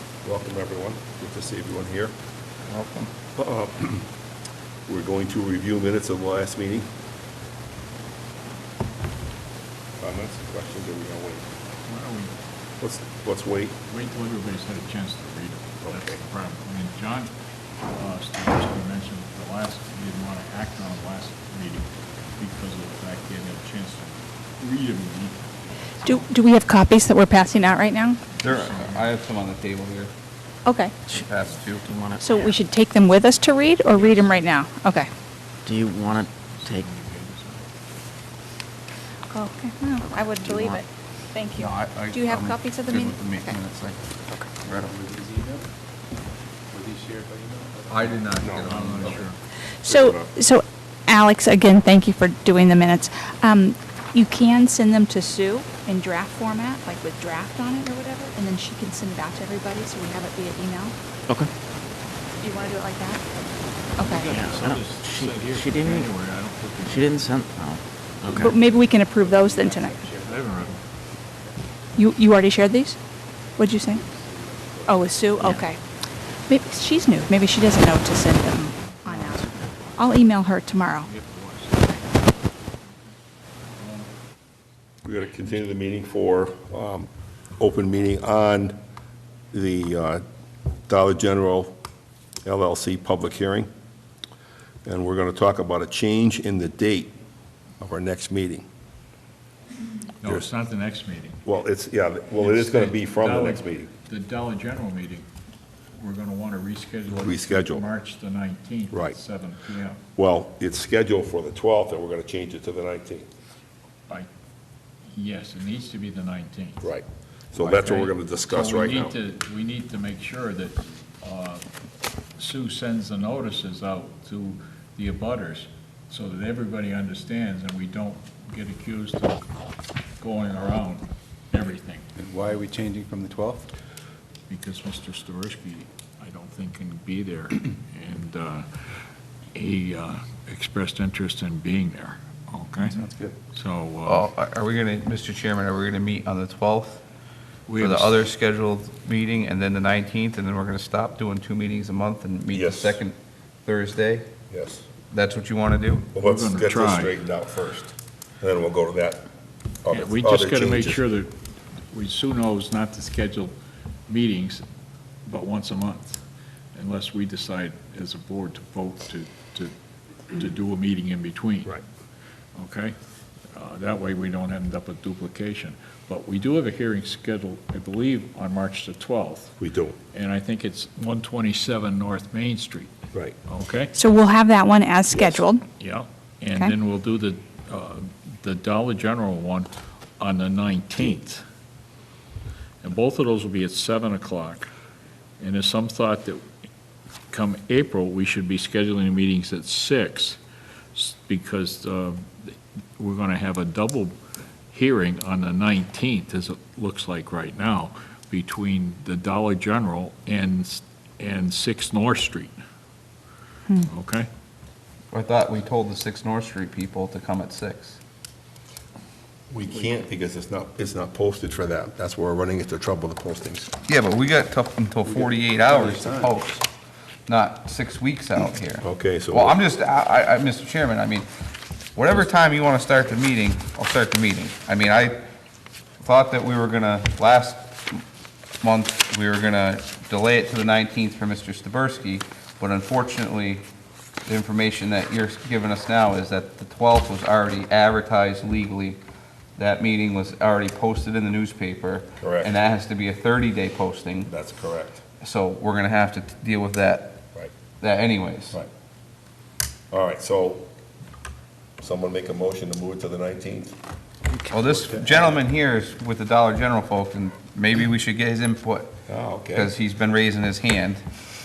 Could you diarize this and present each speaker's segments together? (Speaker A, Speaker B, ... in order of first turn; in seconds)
Speaker A: 0.2-2.1, 3.3-4.1, 4.8-6.9, 10.0-11.5, 12.8-13.8, 15.8-16.2, 48.4-49.1, 49.8-50.3, 85.0-88.8, 89.5-90.2, 90.9-91.8, 92.4-93.7, 94.8-97.2, 97.8-98.7, 100.2-100.5, 101.4-103.9, 107.1-107.8, 108.9-109.2, 110.1-113.3, 116.8-119.2, 152.5-153.0, 154.5-154.9, 156.1-159.3, 159.8-161.1, 179.6-179.9, 219.5-223.7, 228.8-229.6, 252.2-252.5, 254.2-255.0, 259.9-260.7, 261.8-263.7, 264.7-265.0, 269.1-269.7
Speaker B: 2.7-3.1, 28.4-30.1, 31.1-31.9, 41.5-45.0, 47.9-49.3, 144.1-147.0, 147.8-154.3, 155.1-156.1, 215.1-218.0, 223.9-226.6, 227.3-231.3, 231.9-235.2, 236.0-238.0, 238.6-243.7, 244.2-249.0, 249.6-254.3, 255.2-257.2, 257.8-258.6, 264.5-269.0, 269.5-271.0
Speaker C: 11.8-12.3, 13.8-17.3, 17.9-26.2, 28.3-29.2, 33.9-34.5, 36.2-37.7, 48.6-49.4, 64.0-67.3, 70.2-70.8, 78.8-79.7, 81.0-83.1, 83.6-84.1, 100.2-101.4, 102.3-105.2, 105.9-110.0, 115.1-116.9, 117.7-121.7, 122.4-129.5, 130.2-132.1, 134.5-139.0, 139.5-144.3, 147.7-148.2, 156.2-157.1, 159.9-161.3, 161.9-163.5, 164.1-164.6, 165.2-166.2, 166.7-169.7, 170.3-171.8, 172.6-173.0, 173.5-179.6, 180.1-183.9, 185.8-191.4, 192.8-194.7, 195.4-196.4, 197.3-200.4, 200.9-204.2, 204.7-212.6, 213.8-214.3
Speaker D: 26.0-28.2, 30.6-31.0, 32.2-35.1, 39.3-43.6, 49.9-60.9, 62.4-63.2, 64.0-64.3, 68.4-70.1, 72.0-73.0, 73.6-74.0, 74.8-75.8, 76.5-79.4, 80.0-81.1, 183.9-185.6
Speaker E: 31.8-32.5, 35.6-36.9, 40.3-40.8, 64.2-66.1, 66.8-68.6, 75.4-75.6
Speaker F: 44.8-45.7, 46.7-48.4, 68.5-70.8, 73.8-75.5, 132.2-133.7, 142.8-143.3, 225.0-226.3